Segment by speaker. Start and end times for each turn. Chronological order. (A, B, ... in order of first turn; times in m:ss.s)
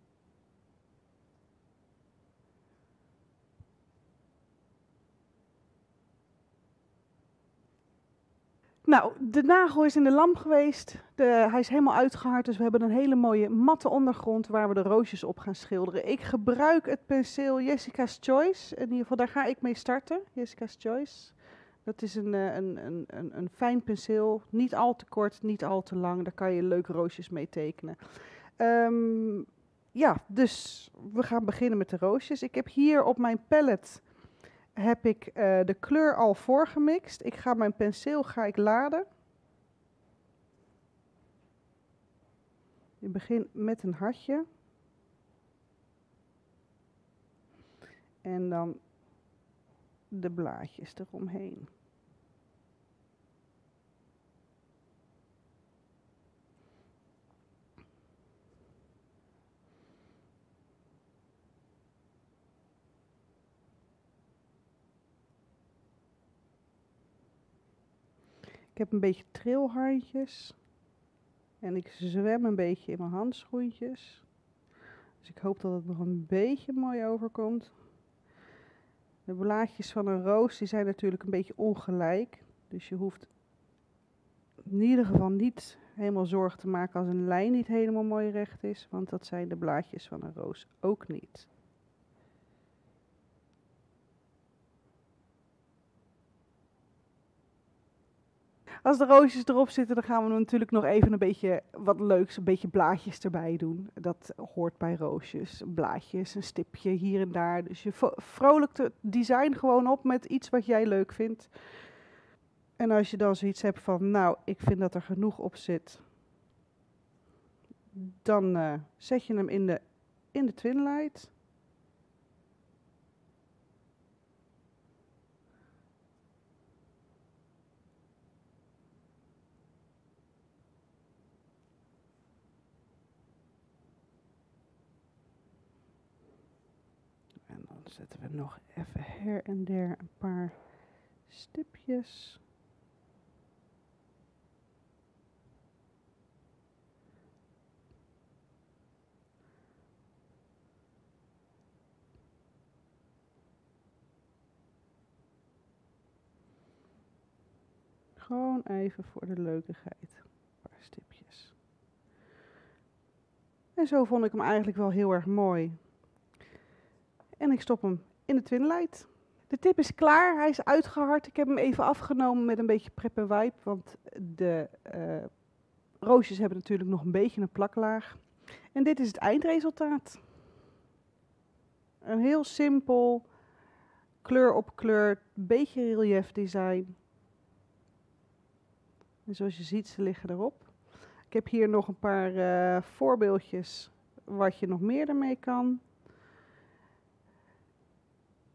0:08.8-0:39.1 A
0:43.0-0:44.4 A
0:48.2-0:49.2 A
0:50.1-0:51.7 A
1:08.7-1:10.7 A
1:11.6-1:14.4 A
1:15.2-1:17.8 A
1:19.2-1:23.3 A
1:24.7-1:31.5 A
1:38.8-1:52.0 A
1:52.8-1:56.0 A
1:57.9-2:01.3 A
2:17.5-2:22.4 A
2:38.2-2:41.6 A
2:43.8-2:46.0 A
2:47.4-3:00.3 A
3:02.0-3:03.4 A
3:04.2-3:07.0 A
3:09.3-3:15.9 A